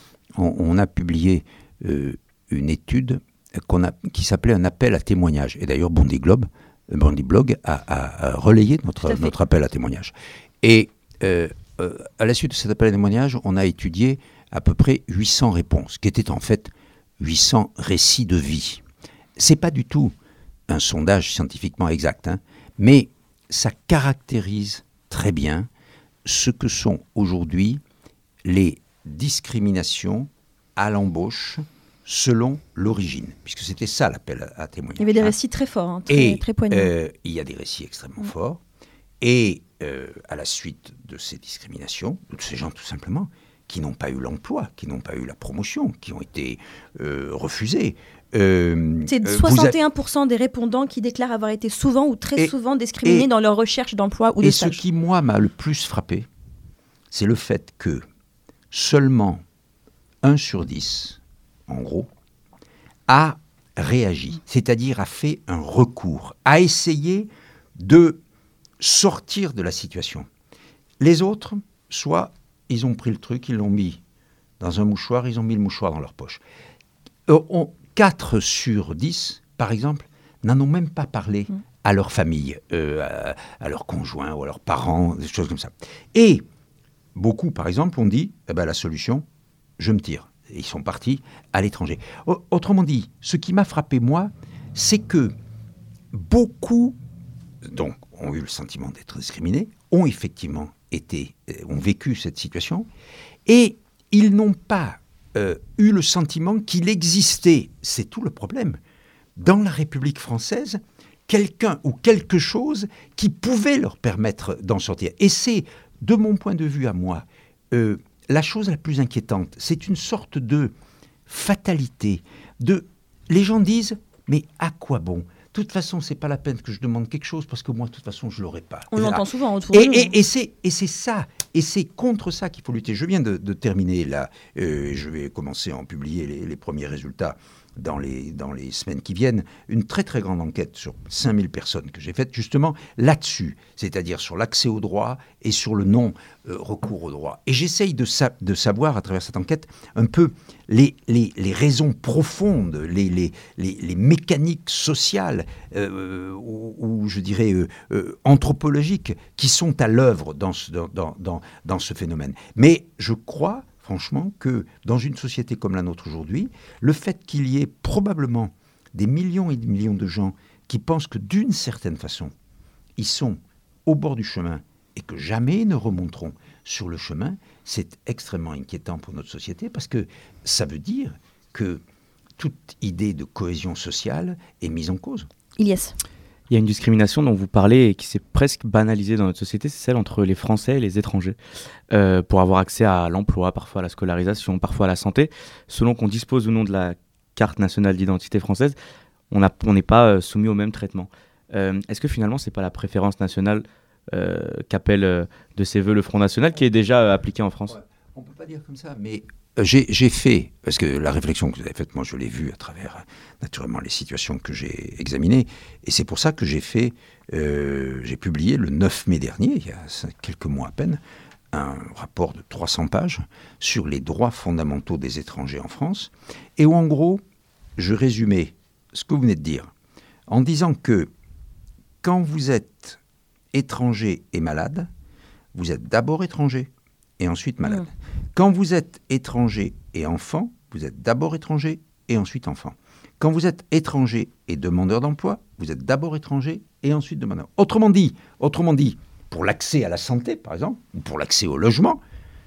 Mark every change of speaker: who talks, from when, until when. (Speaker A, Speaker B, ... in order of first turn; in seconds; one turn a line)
Speaker A: 0.3-18.8
Speaker B: 9.0-9.3
Speaker A: 19.4-20.1
Speaker A: 20.7-25.7
Speaker A: 26.2-27.8
Speaker A: 28.4-35.4
Speaker B: 35.0-36.9
Speaker A: 36.1-38.6
Speaker A: 39.2-49.8
Speaker B: 49.1-54.8
Speaker A: 52.4-53.3
Speaker A: 54.4-56.3
Speaker A: 57.1-58.0
Speaker A: 58.7-59.4
Speaker A: 60.2-62.1
Speaker A: 63.1-68.2
Speaker A: 68.8-70.3
Speaker A: 71.0-74.0
Speaker A: 74.6-76.4
Speaker A: 77.3-86.4
Speaker A: 87.2-89.3
Speaker A: 89.8-95.3
Speaker A: 96.1-97.0
Speaker A: 97.6-102.9
Speaker A: 103.5-108.8
Speaker A: 109.4-120.7
Speaker A: 121.3-172.3
Speaker B: 128.9-130.1
Speaker A: 173.0-181.8
Speaker A: 182.4-185.3
Speaker B: 185.6-186.0
Speaker C: 186.5-191.4
Speaker C: 191.9-198.8
Speaker C: 199.3-207.8
Speaker A: 207.7-221.0
Speaker A: 221.5-227.2
Speaker A: 227.8-229.7
Speaker A: 230.3-231.1
Speaker A: 232.0-233.0
Speaker A: 233.5-234.9
Speaker A: 235.5-252.0